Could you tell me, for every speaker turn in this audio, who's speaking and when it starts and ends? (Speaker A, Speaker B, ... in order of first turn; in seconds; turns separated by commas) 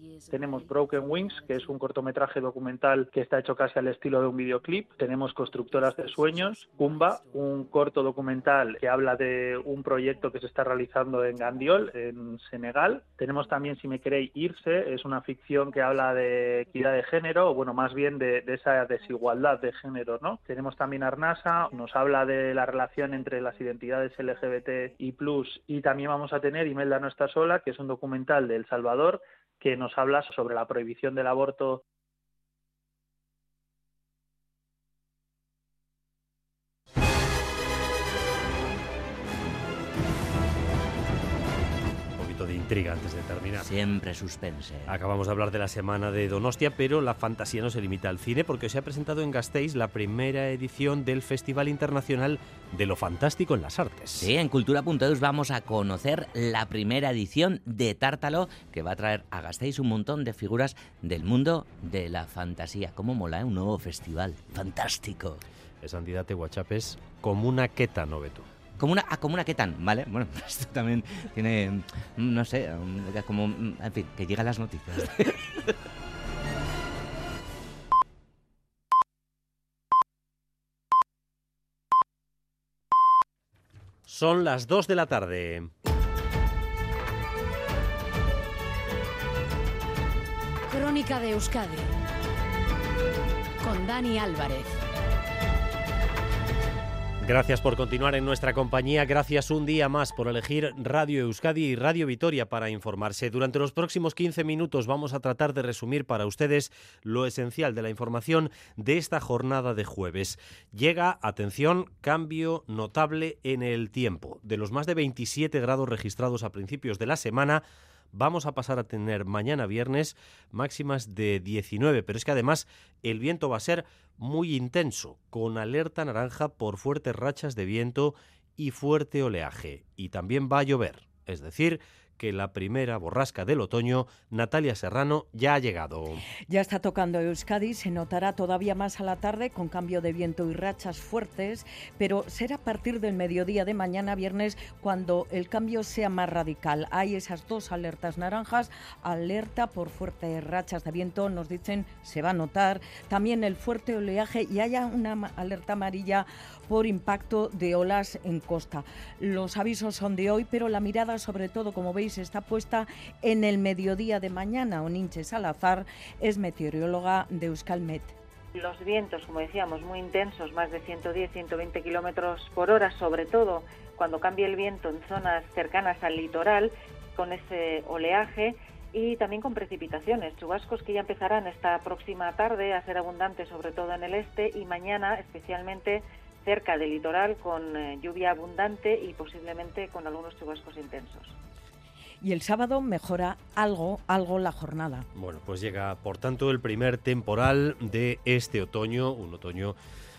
Speaker A: 0.3-31.8, Speaker B: 42.2-43.7, Speaker C: 43.6-45.0, Speaker B: 44.9-54.3, Speaker C: 54.2-65.4, Speaker B: 65.8-68.5, Speaker C: 68.8-75.7, Speaker B: 84.1-85.7, Speaker D: 90.7-91.9, Speaker D: 93.6-94.8, Speaker B: 97.2-136.2, Speaker E: 136.5-168.1, Speaker F: 168.6-191.3, Speaker E: 192.2-195.0, Speaker B: 195.1-199.8